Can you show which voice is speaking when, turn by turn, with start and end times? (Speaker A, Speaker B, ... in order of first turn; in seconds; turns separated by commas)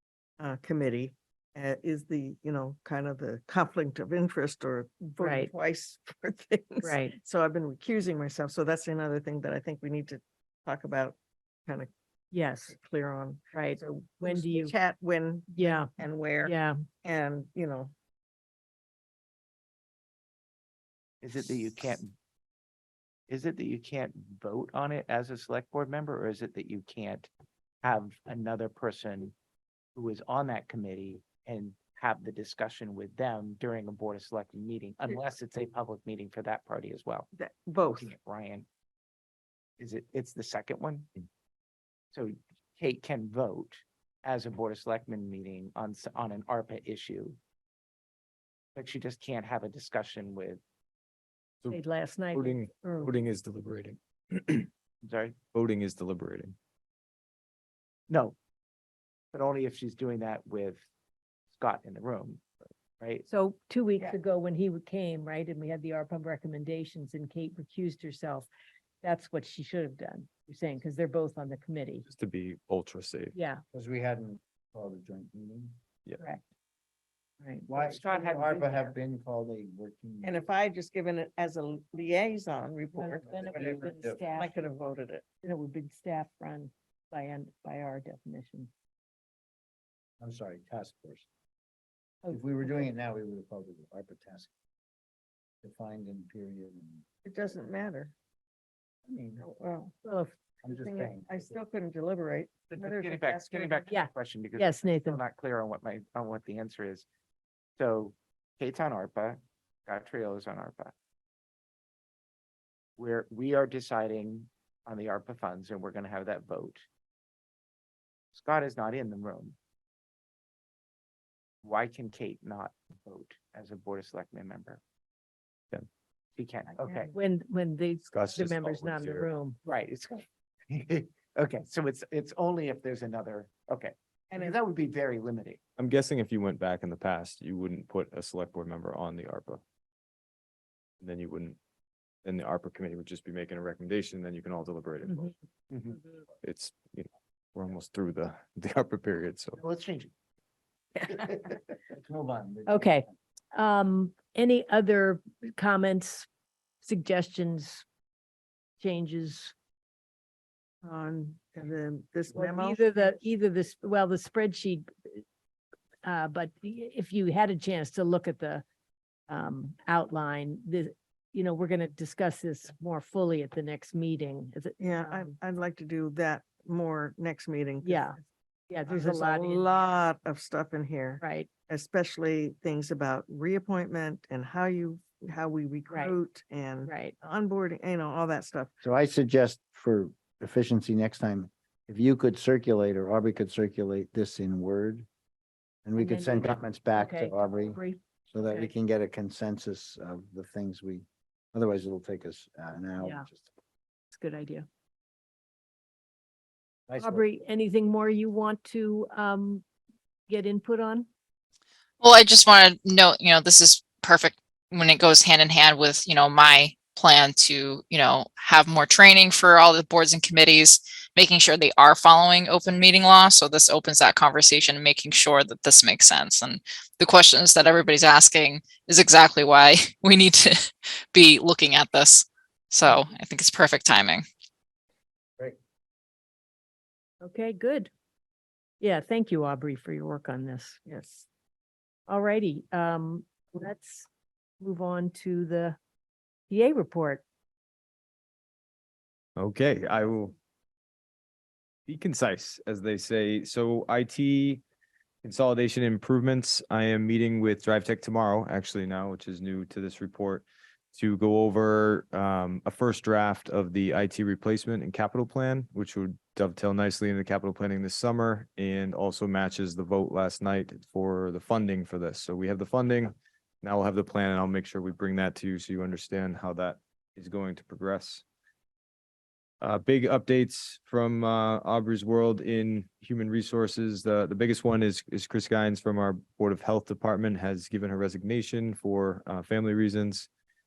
Speaker A: 0.4-11.9, Speaker B: 5.2-5.5, Speaker B: 6.8-7.2, Speaker B: 12.3-12.8, Speaker A: 12.7-17.9, Speaker B: 13.5-14.7, Speaker B: 15.5-16.8, Speaker C: 21.2-22.1, Speaker C: 23.3-27.3, Speaker C: 27.8-29.3, Speaker C: 29.9-37.3, Speaker A: 37.4-38.1, Speaker C: 37.9-38.7, Speaker C: 39.8-41.1, Speaker C: 42.1-47.4, Speaker C: 48.8-50.6, Speaker B: 51.7-53.1, Speaker D: 52.3-54.7, Speaker C: 55.0-55.4, Speaker D: 55.5-56.5, Speaker C: 58.1-58.4, Speaker C: 59.3-60.8, Speaker C: 61.5-62.4, Speaker B: 63.3-68.5, Speaker B: 69.0-72.0, Speaker D: 72.1-73.3, Speaker B: 73.3-73.6, Speaker E: 73.7-75.8, Speaker D: 76.1-76.3, Speaker B: 76.2-76.4, Speaker B: 77.4-77.7, Speaker E: 77.7-80.5, Speaker C: 77.8-78.9, Speaker A: 80.2-85.2, Speaker B: 83.0-84.7, Speaker E: 83.2-84.2, Speaker B: 85.4-88.7, Speaker E: 90.2-91.3, Speaker B: 92.2-92.9, Speaker E: 92.3-94.5, Speaker E: 95.6-97.0, Speaker A: 97.2-98.1, Speaker E: 99.1-99.4, Speaker A: 99.4-99.9, Speaker B: 100.0-100.3, Speaker E: 100.6-101.5, Speaker A: 100.7-103.9, Speaker C: 102.7-107.0, Speaker B: 103.9-105.2, Speaker C: 107.8-110.9, Speaker C: 113.0-116.8, Speaker C: 118.3-119.6, Speaker C: 121.6-124.8, Speaker C: 126.4-127.1, Speaker B: 127.1-129.6, Speaker D: 128.1-129.3, Speaker C: 129.6-135.6, Speaker A: 134.3-134.6, Speaker D: 135.8-139.6, Speaker D: 141.0-141.6, Speaker D: 142.2-145.3, Speaker C: 145.7-146.0, Speaker D: 146.4-149.6, Speaker C: 149.6-150.1, Speaker C: 151.1-151.5, Speaker E: 151.9-153.1, Speaker B: 152.7-156.3, Speaker B: 156.8-157.8, Speaker B: 158.8-159.5, Speaker A: 160.8-163.1, Speaker B: 162.3-165.2, Speaker B: 166.1-168.6, Speaker B: 169.3-175.4, Speaker A: 174.8-178.1, Speaker B: 177.8-178.2, Speaker B: 178.7-179.8, Speaker A: 178.9-188.7, Speaker B: 181.2-181.5, Speaker B: 185.9-186.2, Speaker B: 186.8-187.2, Speaker E: 188.8-195.1, Speaker E: 195.8-203.5, Speaker B: 196.0-198.7, Speaker B: 203.0-203.3, Speaker B: 204.1-204.7, Speaker E: 206.9-207.3, Speaker B: 207.0-209.7, Speaker B: 210.3-211.1, Speaker F: 212.0-234.2, Speaker B: 237.2-237.9, Speaker B: 238.8-240.8, Speaker A: 240.9-241.3, Speaker B: 242.1-244.1, Speaker B: 244.6-245.8, Speaker B: 246.5-247.2, Speaker D: 249.4-250.3, Speaker D: 251.9-254.6, Speaker D: 255.2-278.2, Speaker D: 279.6-290.3